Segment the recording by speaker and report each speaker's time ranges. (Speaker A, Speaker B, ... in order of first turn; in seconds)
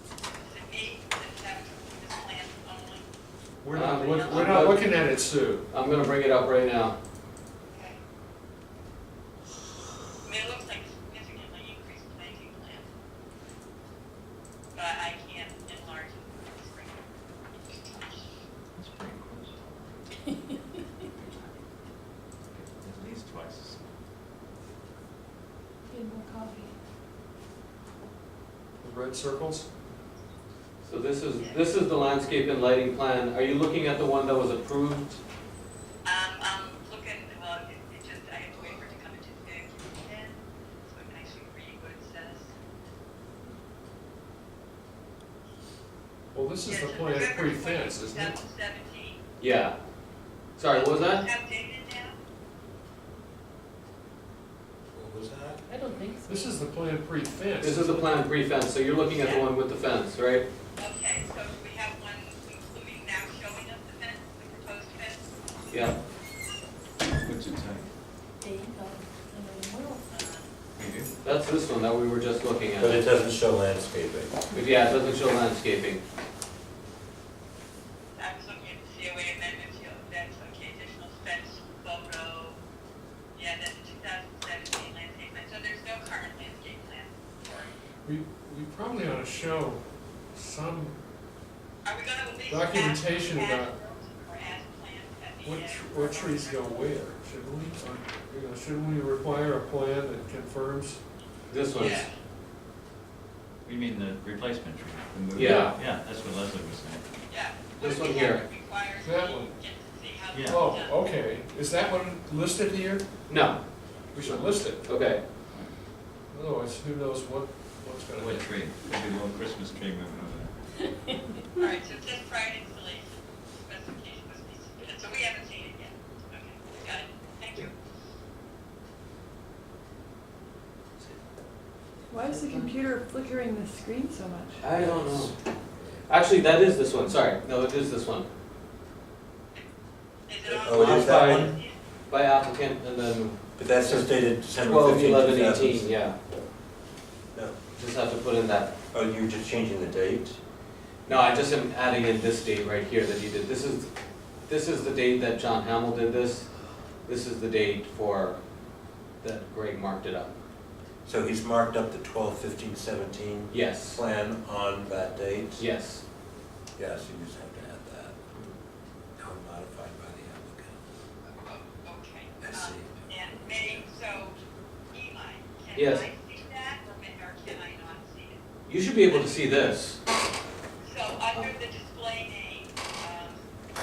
Speaker A: 0.3-3.0, 3.9-4.7, 7.7-8.0, 10.2-12.9, 14.7-18.2, 36.0-42.5, 46.6-49.2, 50.7-52.2, 59.2-59.4, 60.8-65.3, 70.1-70.5, 78.1-82.6, 83.3-87.7, 91.8-96.7, 101.8-102.1, 107.3-111.0, 121.6-127.7, 140.3-141.8, 171.3-178.4, 179.1-179.5, 180.8-183.4
Speaker B: 3.6-5.7, 28.8-29.7, 46.3-48.4, 56.3-58.2, 88.0-91.0, 92.5-93.7, 95.4-101.0, 109.0-109.5, 110.4-113.3, 114.1-114.9, 116.3-118.6
Speaker C: 3.7-5.0, 5.7-7.0, 30.8-35.2, 49.4-49.8, 50.6-51.2, 57.6-60.5, 65.7-66.0, 71.2-73.0, 74.5-76.0, 101.5-102.0, 105.3-105.8, 107.8-108.4, 113.3-113.6, 114.1-115.2, 132.1-132.7, 134.6-135.3, 136.1-138.3, 140.7-146.2, 147.7-148.7, 151.1-153.9, 154.4-156.5, 157.0-158.4, 159.2-160.3, 163.5-164.0, 165.6-166.0, 175.8-176.1, 178.7-180.0
Speaker D: 18.7-20.4, 21.0-21.6, 22.5-24.0, 67.2-67.9, 70.8-71.1, 103.6-107.0, 110.3-110.6, 115.5-115.8, 118.1-120.5
Speaker E: 54.9-55.7, 72.8-74.4, 134.7-135.3, 140.4-141.5, 143.6-145.9, 148.9-150.4, 161.0-165.7, 166.8-168.2, 169.2-170.7, 172.4-172.9
Speaker F: 55.7-56.6, 68.4-70.0
Speaker G: 132.1-134.6